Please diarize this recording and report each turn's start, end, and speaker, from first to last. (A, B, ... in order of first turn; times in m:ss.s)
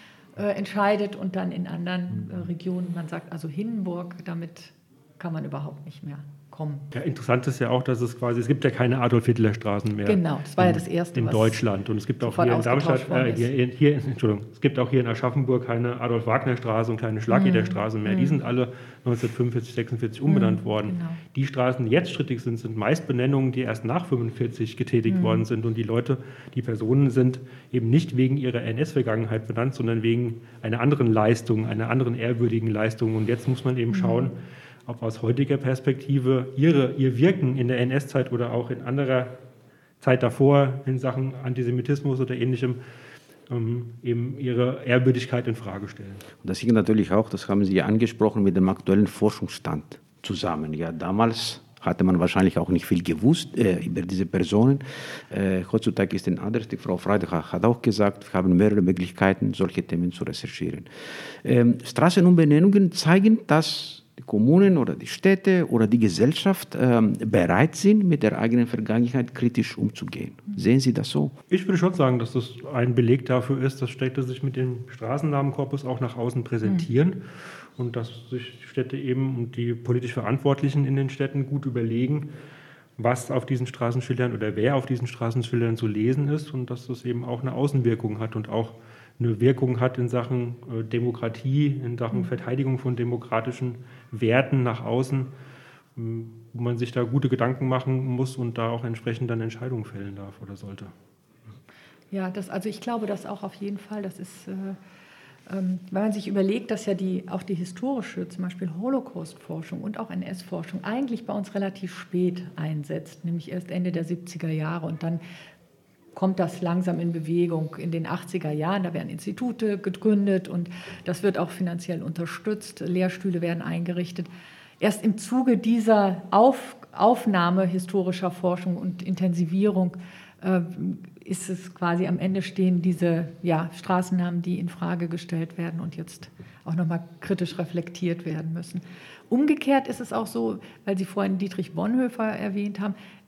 0:00.4-0:06.9 A
0:06.9-0:39.4 B
0:10.0-0:11.6 A
0:12.2-0:13.5 A
0:17.3-0:18.4 A
0:20.3-0:21.2 A
0:25.1-0:25.4 A
0:33.9-0:34.3 A
0:40.0-0:42.8 B
0:43.5-0:46.2 B
0:46.4-1:11.3 C
1:11.5-1:17.2 B
1:17.8-1:22.3 B
1:23.0-1:35.3 B
1:36.0-1:40.9 B
1:42.1-1:44.8 A
1:45.5-1:55.2 A
1:56.2-2:04.3 A
2:04.8-2:23.0 A